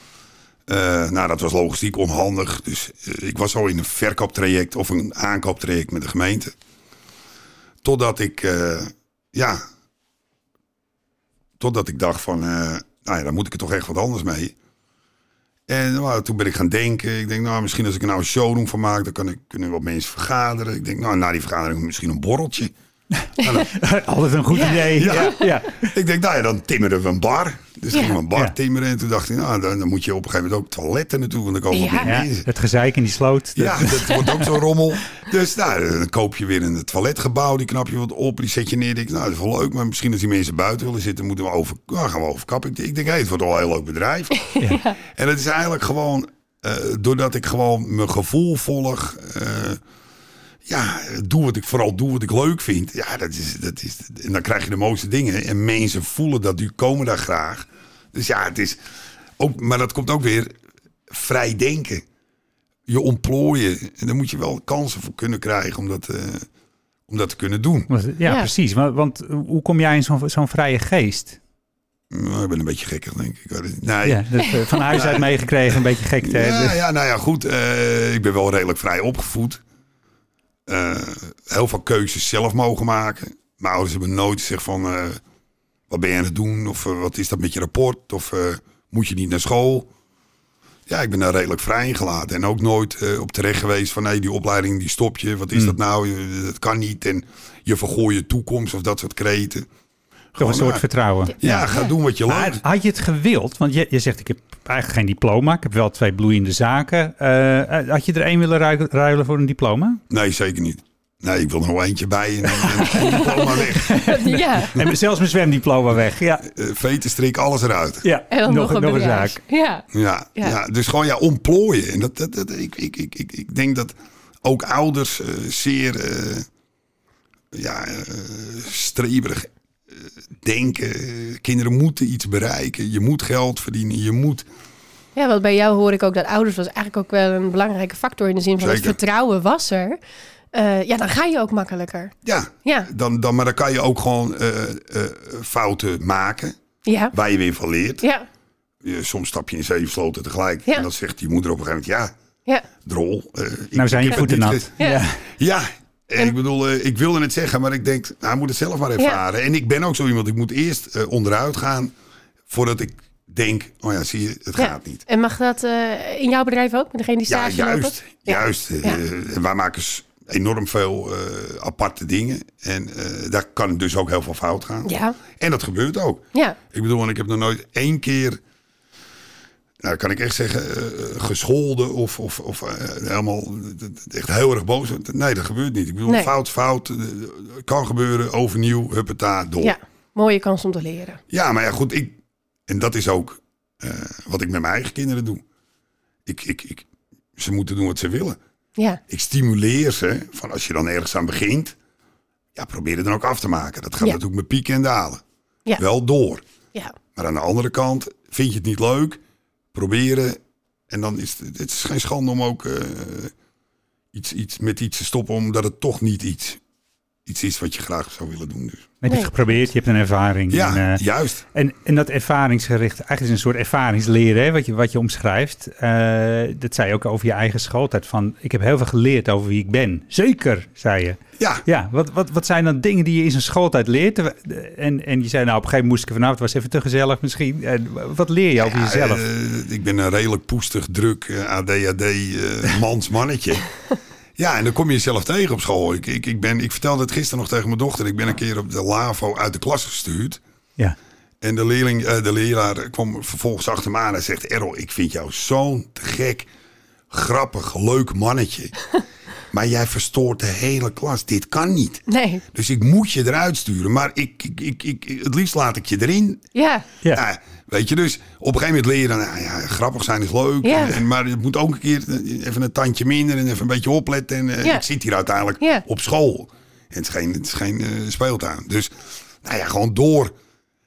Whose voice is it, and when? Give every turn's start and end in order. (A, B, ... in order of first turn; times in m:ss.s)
0:00.7-0:06.5 A
0:07.8-0:09.6 A
0:11.6-0:14.5 A
0:15.7-0:22.7 A
0:23.4-0:23.7 A
0:23.5-0:25.9 B
0:24.5-0:25.4 C
0:24.8-0:32.5 A
0:31.7-0:32.1 C
0:32.0-0:34.5 B
0:33.6-0:49.8 A
0:44.4-0:45.0 C
0:50.7-0:58.8 A
0:59.4-1:00.5 A
1:01.1-1:02.0 A
1:02.9-1:06.5 A
1:07.1-1:07.9 A
1:07.9-1:11.4 B
1:08.2-1:08.5 C
1:12.1-1:15.3 A
1:14.0-1:16.8 B
1:16.2-1:19.6 A
1:20.7-1:25.2 A
1:25.9-1:29.9 A
1:30.9-1:39.6 A
1:40.3-1:40.8 A
1:40.4-1:41.7 B
1:41.4-1:42.6 A
1:42.3-1:50.0 B
1:50.1-1:54.0 A
1:52.6-1:56.4 B
1:52.8-1:54.8 C
1:56.4-1:58.0 A
1:58.0-1:59.4 B
1:58.3-2:00.5 C
1:59.9-2:06.4 A
2:07.5-2:14.4 A
2:15.2-2:20.0 C
2:18.6-2:19.0 A
2:20.5-2:22.1 C
2:22.2-2:26.5 A
2:26.8-2:27.1 C
2:27.1-2:28.0 A
2:28.8-2:32.1 A
2:32.8-2:34.7 A
2:33.7-2:35.2 B
2:35.3-2:41.9 A
2:42.5-2:45.0 A
2:44.6-2:49.0 C
2:47.3-2:58.4 A
2:54.8-2:55.2 C
2:59.8-3:09.7 A
3:09.6-3:11.2 C
3:11.3-3:15.4 A
3:16.2-3:18.4 A
3:19.1-3:21.8 A
3:22.5-3:25.2 A
3:25.8-3:26.4 A
3:27.1-3:29.2 A
3:29.7-3:30.4 A
3:30.9-3:33.3 A
3:34.1-3:36.6 A
3:37.2-3:38.9 A
3:39.0-3:41.0 B
3:40.5-3:41.4 A
3:41.5-3:59.2 B
3:51.4-3:51.6 A
3:58.6-4:03.7 A
4:04.4-4:10.4 A
4:11.4-4:16.5 A
4:17.1-4:18.7 A
4:19.5-4:26.4 A
4:22.1-4:22.4 C
4:26.5-4:26.8 C
4:27.1-4:40.3 A
4:30.6-4:31.0 C